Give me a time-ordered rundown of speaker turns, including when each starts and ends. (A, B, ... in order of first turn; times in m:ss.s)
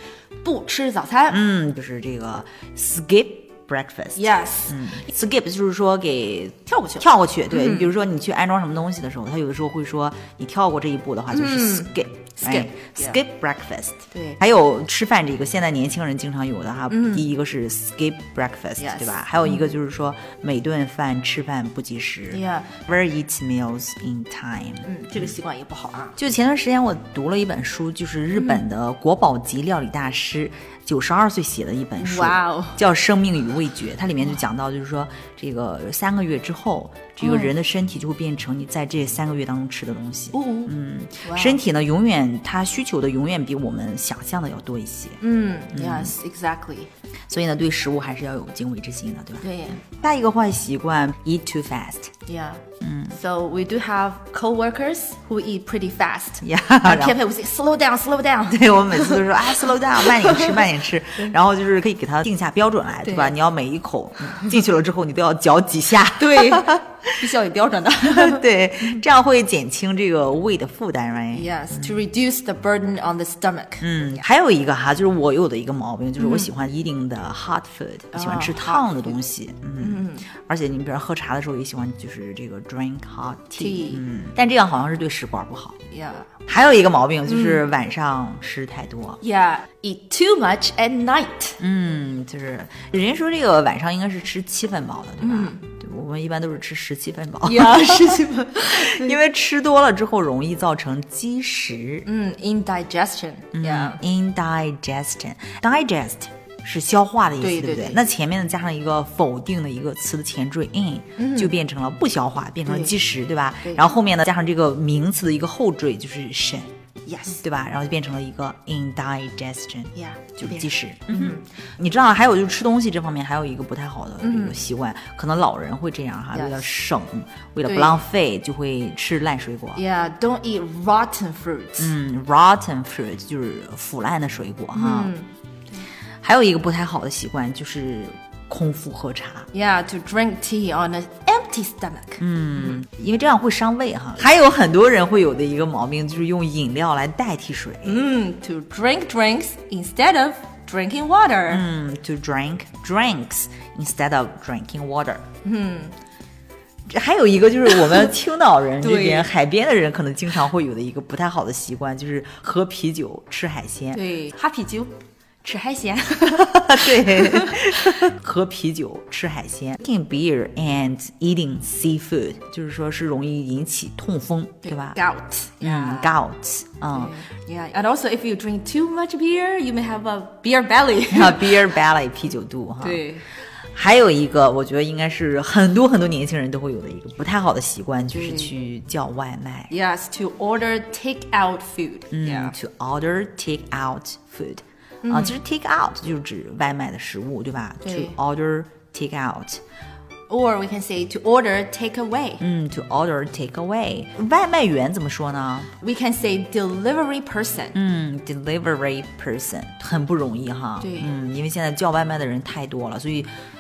0:00.4-0:01.4 A
0:01.3-0:25.3 B
0:04.2-0:04.9 A
0:06.7-0:07.9 A
0:11.3-0:13.2 A
0:14.1-0:14.4 A
0:16.9-0:17.3 A
0:18.8-0:19.7 A
0:22.3-0:22.8 A
0:24.8-0:26.2 A
0:26.2-0:45.2 B
0:28.4-0:28.6 A
0:32.0-0:32.8 A
0:37.2-0:37.5 A
0:40.3-0:40.7 A
0:41.2-0:41.6 A
0:45.2-0:46.9 A
0:45.7-0:46.1 B
0:47.3-0:52.1 B
0:49.4-0:49.8 A
0:52.3-1:00.7 A
0:52.8-0:53.2 B
0:56.4-0:57.2 B
0:58.5-1:07.0 B
1:03.0-1:03.4 A
1:06.2-1:09.0 A
1:08.0-1:12.0 B
1:11.3-1:14.2 A
1:13.8-1:25.8 B
1:16.2-1:16.5 A
1:18.1-1:19.2 A
1:19.8-1:20.3 A
1:23.6-1:24.0 A
1:25.9-1:26.3 A
1:26.5-1:29.2 B
1:27.3-1:27.6 A
1:29.2-1:31.6 A
1:31.6-1:42.1 B
1:35.2-1:35.6 A
1:37.4-1:39.2 A
1:42.1-1:44.0 A
1:43.5-1:56.7 B
1:47.4-1:48.0 A
1:51.2-1:51.5 A
1:52.7-1:53.0 A
1:57.1-1:57.4 A
1:57.4-2:09.8 B
2:00.0-2:01.4 A
2:04.2-2:04.6 A
2:06.3-2:06.7 A
2:07.6-2:08.0 A
2:09.8-2:11.9 A
2:11.8-2:15.1 B
2:14.7-2:15.8 A
2:16.2-2:19.5 B
2:19.5-2:22.8 A
2:22.2-2:28.0 B
2:27.8-2:31.6 A
2:31.5-2:35.2 B
2:35.4-2:36.0 A
2:36.9-2:44.0 B
2:38.8-2:39.3 A
2:43.9-2:47.9 A
2:46.4-2:55.0 B
2:54.6-2:56.2 A
2:55.6-2:57.1 B
2:56.9-3:01.6 A
3:01.1-3:03.0 B
3:02.8-3:03.2 A
3:03.8-3:09.7 B
3:08.1-3:08.5 A
3:09.7-3:12.5 A
3:12.1-3:19.6 B
3:15.0-3:15.4 A
3:17.8-3:18.2 A
3:20.3-3:22.4 A
3:22.4-3:25.7 B
3:25.8-3:27.8 A
3:27.7-3:33.3 B
3:30.8-3:31.1 A